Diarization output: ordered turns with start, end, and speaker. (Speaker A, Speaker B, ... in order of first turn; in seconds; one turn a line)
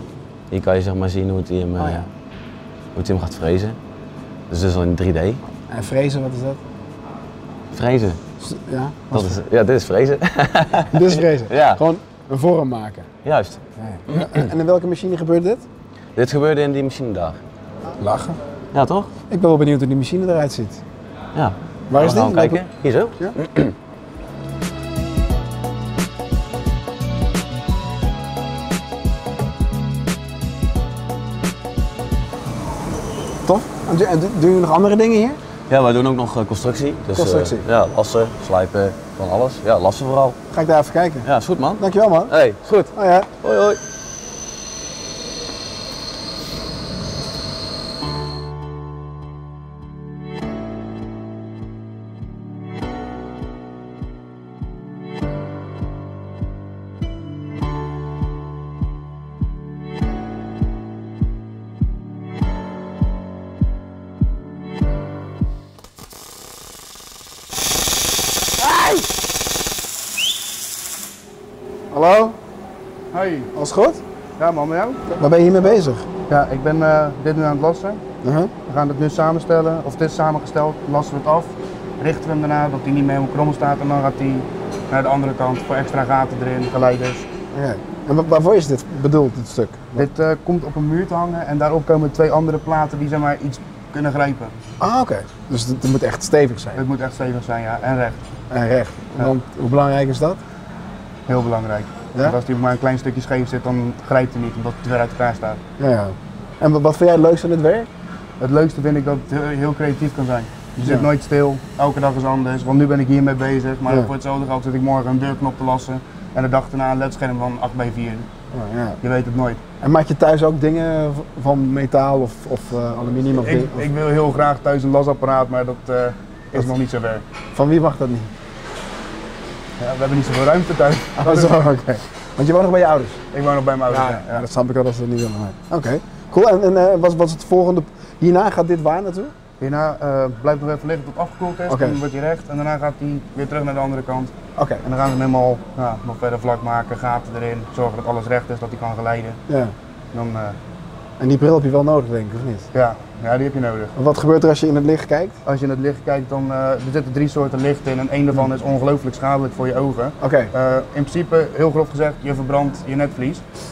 Speaker A: 0.5-2.1
Speaker B: 1.8-2.1
Speaker A: 3.0-3.8
Speaker A: 4.5-5.4
Speaker B: 5.7-6.6
Speaker A: 7.7-8.2
Speaker B: 8.4-9.4
Speaker A: 9.1-11.8
Speaker B: 10.9-13.1
Speaker A: 13.2-13.6
Speaker B: 13.8-15.7
Speaker A: 16.2-17.4
Speaker B: 18.0-18.4
Speaker A: 18.7-19.1
Speaker B: 19.3-20.8
Speaker A: 21.4-23.7
Speaker B: 21.9-22.6
Speaker B: 33.4-35.4
Speaker A: 35.7-40.4
Speaker B: 37.1-37.7
Speaker B: 40.5-42.3
Speaker A: 41.2-43.8
Speaker B: 42.9-43.3
Speaker B: 71.9-72.4
Speaker C: 73.1-73.5
Speaker B: 73.5-74.0
Speaker C: 74.4-75.0
Speaker B: 75.2-76.1
Speaker C: 76.3-78.0
Speaker B: 78.2-78.5
Speaker C: 78.7-87.3
Speaker B: 87.5-90.0
Speaker C: 90.0-94.5
Speaker B: 94.8-96.8
Speaker C: 96.8-98.2
Speaker B: 98.5-100.4
Speaker C: 101.3-105.6
Speaker B: 105.8-107.9
Speaker C: 108.4-118.3
Speaker B: 110.8-111.1
Speaker B: 118.5-119.0
Speaker C: 119.0-119.6
Speaker B: 119.8-123.9
Speaker C: 123.3-127.2
Speaker B: 127.5-128.3
Speaker C: 129.8-131.6
Speaker B: 131.2-133.2
Speaker C: 133.3-134.5
Speaker B: 133.9-139.3
Speaker C: 139.6-149.4
Speaker B: 141.7-142.0
Speaker B: 144.6-144.8
Speaker B: 149.5-149.7
Speaker C: 150.1-150.6
Speaker B: 151.2-152.7
Speaker C: 152.7-153.9
Speaker B: 154.0-155.4
Speaker C: 155.4-163.4
Speaker B: 160.2-160.5